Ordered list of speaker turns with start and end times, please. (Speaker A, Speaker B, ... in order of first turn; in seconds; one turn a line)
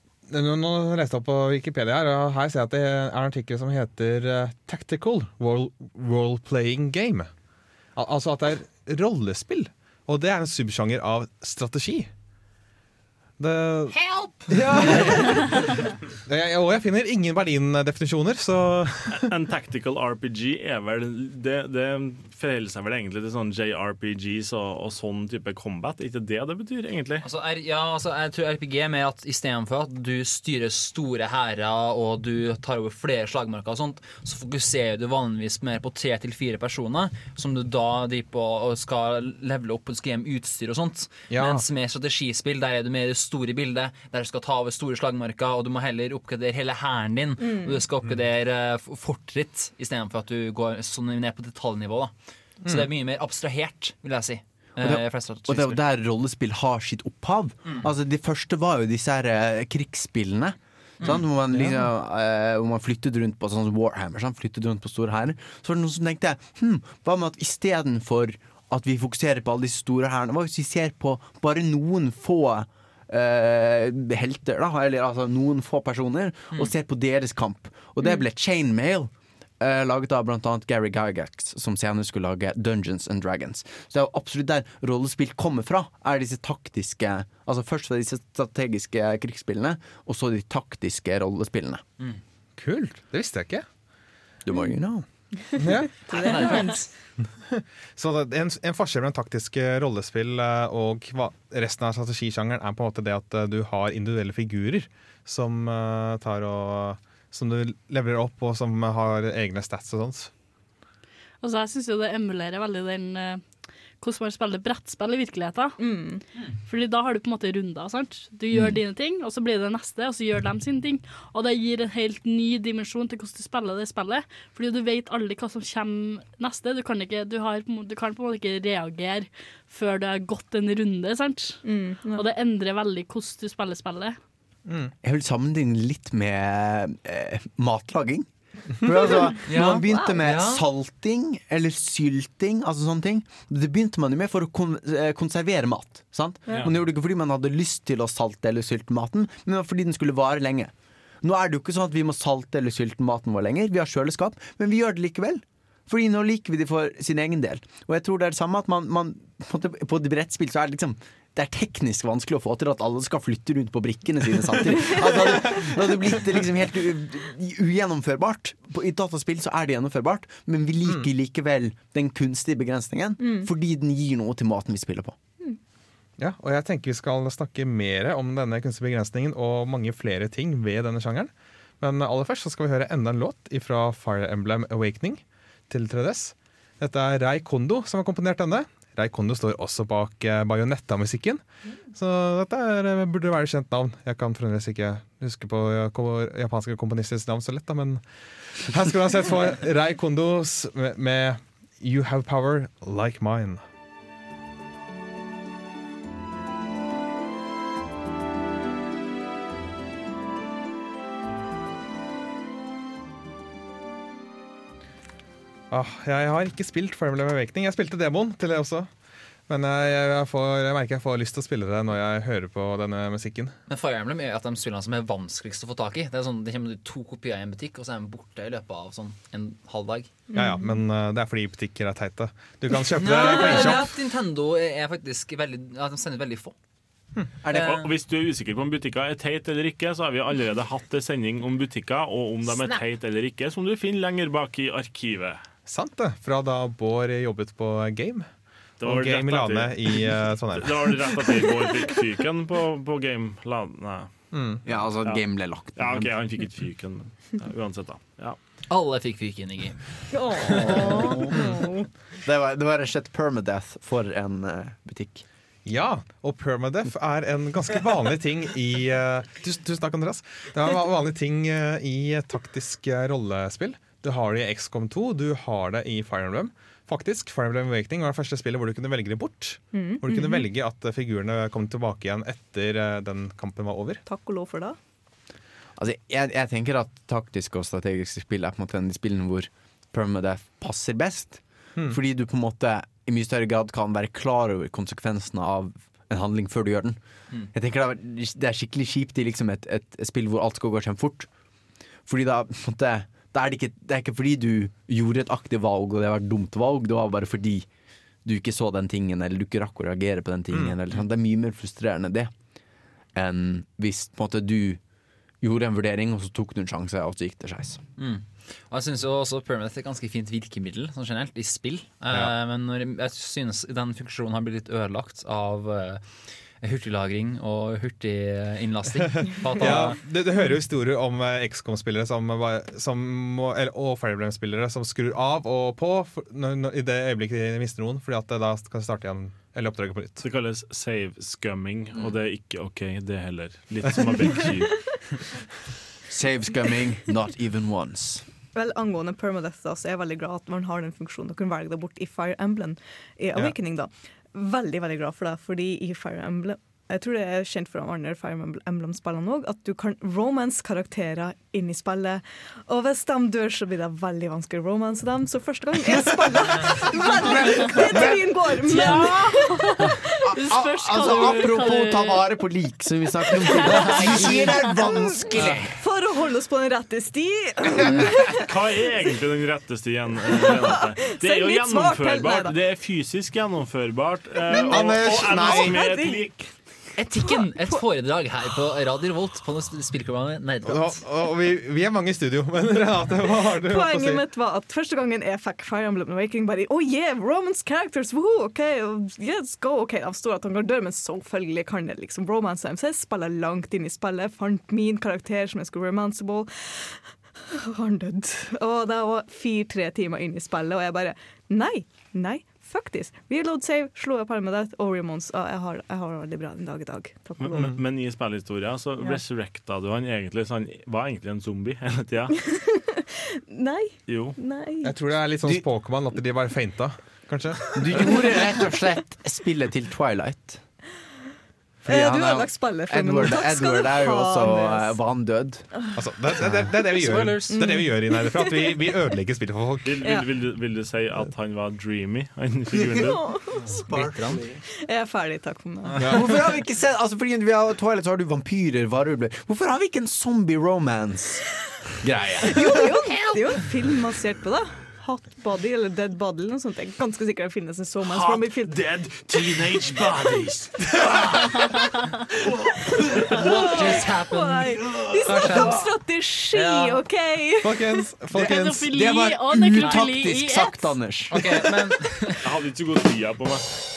Speaker A: 0.3-7.3
Speaker A: 8.0-12.1
Speaker A: 13.4-13.9
Speaker B: 13.9-15.3
Speaker A: 14.5-19.3
Speaker C: 19.1-27.2
Speaker B: 27.2-52.1
Speaker A: 41.3-41.6
Speaker D: 47.4-47.8
Speaker B: 52.6-55.8
Speaker E: 54.8-91.8
Speaker A: 92.6-93.6
Speaker E: 94.4-95.0
Speaker D: 95.3-96.9
Speaker A: 95.6-96.0
Speaker B: 96.1-96.8
Speaker A: 97.5-110.3
Speaker F: 111.4-113.4
Speaker F: 114.0-115.8
Speaker D: 115.8-116.2
Speaker F: 116.7-131.6
Speaker D: 131.6-132.2
Speaker F: 132.1-134.2
Speaker A: 134.7-134.9
Speaker E: 135.0-175.2
Speaker B: 139.4-140.6
Speaker D: 139.7-140.2
Speaker D: 173.2-173.5
Speaker A: 176.2-191.4
Speaker A: 191.9-198.0
Speaker A: 198.6-203.6
Speaker A: 215.7-218.9
Speaker A: 219.5-223.5
Speaker B: 223.7-230.1
Speaker D: 230.3-230.8
Speaker A: 230.3-233.9
Speaker B: 232.9-236.5
Speaker E: 237.4-237.9
Speaker C: 237.5-245.4
Speaker B: 237.5-237.8
Speaker A: 245.7-248.3
Speaker C: 248.8-254.1
Speaker A: 248.8-251.4
Speaker A: 254.3-254.6
Speaker E: 254.7-256.1
Speaker C: 255.7-258.4
Speaker B: 258.7-261.3
Speaker D: 260.1-261.9
Speaker E: 262.2-265.2
Speaker A: 265.6-284.0
Speaker D: 279.7-280.5
Speaker D: 284.1-284.8
Speaker E: 285.8-297.0
Speaker E: 297.5-301.3
Speaker E: 302.1-307.7
Speaker E: 308.2-312.3
Speaker E: 313.1-314.8
Speaker E: 315.4-317.8
Speaker B: 318.0-326.0
Speaker B: 326.6-330.0
Speaker A: 329.2-340.2
Speaker C: 340.2-345.0
Speaker E: 346.1-348.2
Speaker D: 348.5-369.9
Speaker E: 367.2-368.2
Speaker F: 368.6-372.3
Speaker E: 370.3-375.8
Speaker F: 373.4-374.1
Speaker D: 373.5-378.4
Speaker C: 378.3-386.4
Speaker D: 380.2-382.5
Speaker D: 384.5-386.5
Speaker A: 384.7-386.1
Speaker B: 386.9-391.0
Speaker A: 390.6-394.2
Speaker D: 393.5-417.7
Speaker C: 417.4-422.4
Speaker D: 422.4-424.9
Speaker C: 424.1-424.4
Speaker A: 424.8-428.0
Speaker E: 427.7-430.6
Speaker D: 431.9-434.9
Speaker E: 431.9-435.7
Speaker A: 435.9-440.1
Speaker B: 436.8-437.6
Speaker D: 437.5-438.9
Speaker C: 439.8-443.2
Speaker D: 440.0-440.3
Speaker D: 442.9-444.0
Speaker E: 443.6-444.6
Speaker B: 443.8-444.4
Speaker D: 444.8-446.3
Speaker E: 446.0-451.4
Speaker E: 452.0-453.3
Speaker D: 452.4-458.8
Speaker C: 458.0-461.6
Speaker D: 463.3-468.1
Speaker B: 463.3-465.9
Speaker B: 466.5-467.0
Speaker A: 467.6-468.9
Speaker E: 468.3-471.7
Speaker F: 468.4-470.9
Speaker B: 471.3-472.4
Speaker C: 472.4-473.7